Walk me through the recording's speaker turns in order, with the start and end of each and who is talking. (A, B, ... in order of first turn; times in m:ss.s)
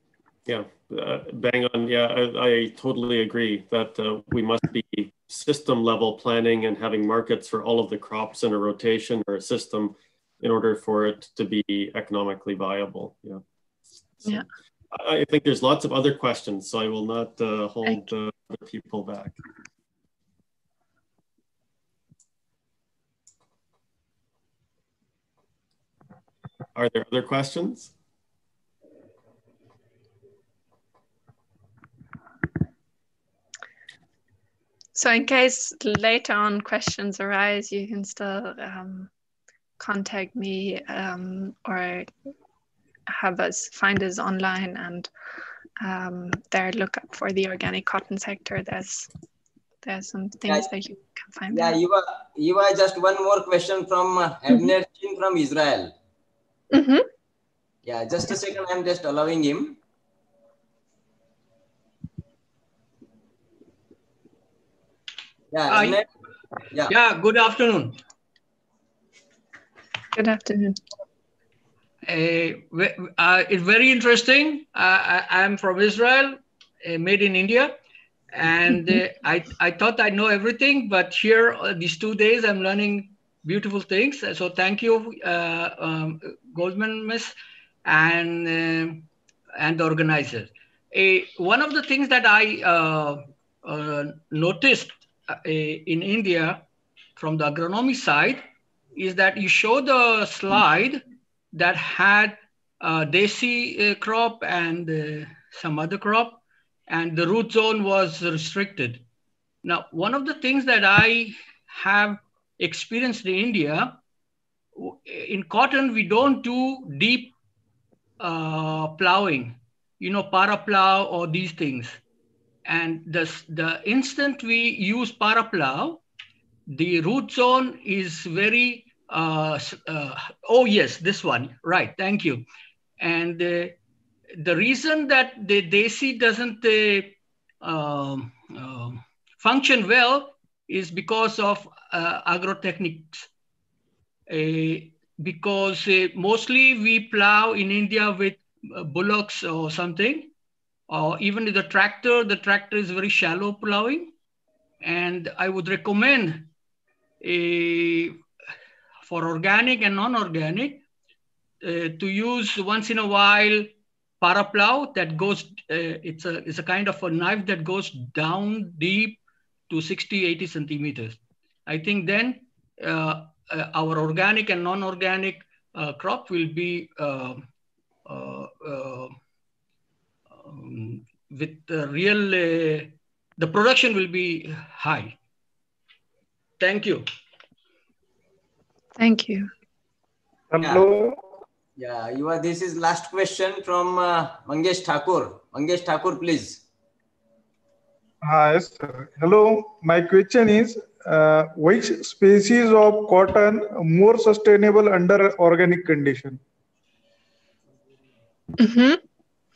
0:00.4-0:13.4 A
0:14.2-0:19.4 A
0:26.7-0:27.9 A
0:35.0-0:39.1 B
0:39.8-0:42.1 B
0:43.1-0:45.1 B
0:45.8-0:49.1 B
0:49.8-0:51.8 B
0:51.5-0:55.9 C
0:56.7-0:57.1 B
0:57.8-0:59.8 C
1:05.5-1:06.0 C
1:05.7-1:06.0 D
1:06.8-1:08.0 D
1:10.1-1:10.8 B
1:12.0-1:17.8 D
1:18.3-1:27.3 D
1:27.8-1:36.6 D
1:37.2-1:49.0 D
1:49.6-1:54.0 D
1:54.8-1:57.3 D
1:58.2-2:02.0 D
2:02.6-2:06.0 D
2:06.7-2:12.4 D
2:13.0-2:13.8 D
2:14.4-2:23.3 D
2:24.3-2:30.3 D
2:30.9-2:34.1 D
2:34.8-2:36.5 D
2:37.2-2:38.2 D
2:39.0-2:40.8 D
2:41.6-2:57.4 D
2:58.0-2:59.1 D
3:00.4-3:05.2 D
3:06.6-3:07.1 D
3:09.0-3:09.5 B
3:10.5-3:11.2 E
3:11.8-3:16.6 C
3:18.2-3:26.4 E
3:28.6-3:29.0 B